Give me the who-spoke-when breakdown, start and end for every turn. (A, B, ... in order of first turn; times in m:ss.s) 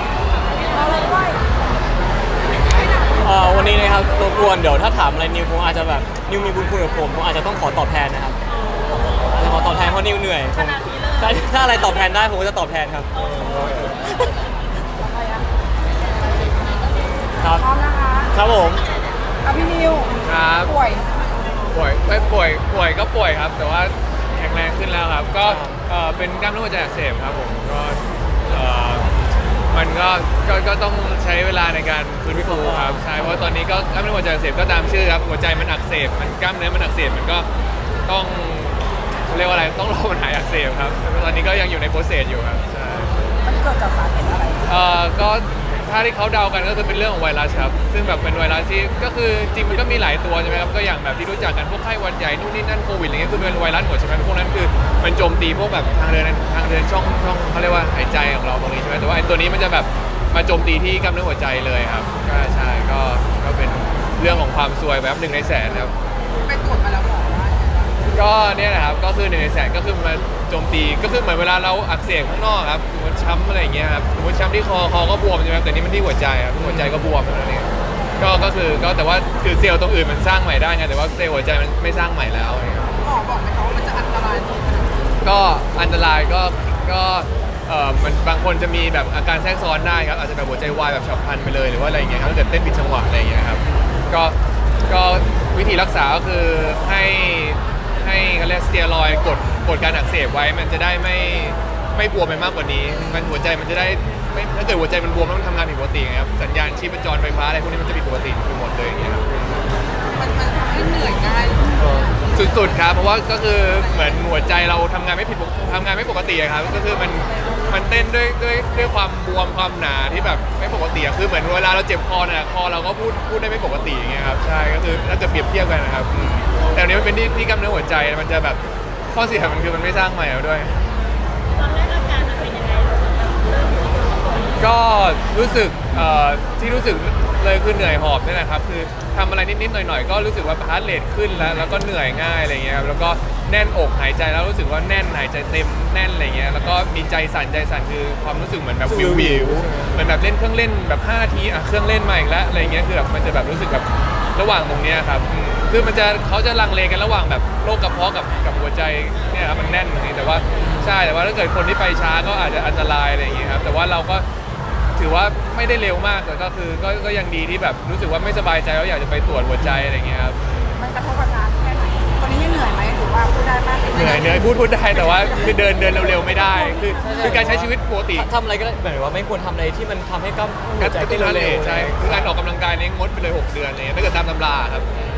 0:00.6-0:01.4 A
0:02.7-0:03.3 A
0:03.2-0:08.4 B
0:08.5-0:12.0 C
0:09.3-0:14.0 B
0:13.2-0:13.9 C
0:13.2-0:13.9 D
0:15.0-0:15.5 A
0:17.4-0:17.7 B
0:17.4-0:18.4 A
0:18.3-0:18.8 B
0:19.4-0:21.2 A
0:20.2-0:20.7 D
0:21.7-0:29.2 D
0:25.4-0:25.8 B
0:29.7-0:37.5 D
0:32.3-0:33.5 B
0:38.1-0:43.2 D
0:43.4-0:44.7 A
0:44.6-1:05.9 D
1:06.4-1:08.0 A
1:08.1-1:23.0 D
1:16.6-1:17.1 B
1:22.9-1:25.2 A
1:25.2-1:49.6 D
1:43.0-1:43.3 B
1:50.1-1:53.0 A
1:51.8-1:52.1 B
1:52.3-2:08.6 D
1:53.6-1:54.3 A
1:56.6-1:58.1 A
2:09.1-2:10.9 D
2:11.5-2:14.6 C
2:14.6-2:44.3 D
2:28.8-2:30.2 B
2:40.5-2:41.0 B
2:45.0-2:50.8 D
2:49.6-2:49.9 B
2:50.8-2:55.7 A
2:53.9-2:58.3 D
2:55.7-2:56.6 C
2:56.9-3:02.3 B
3:00.8-3:04.9 D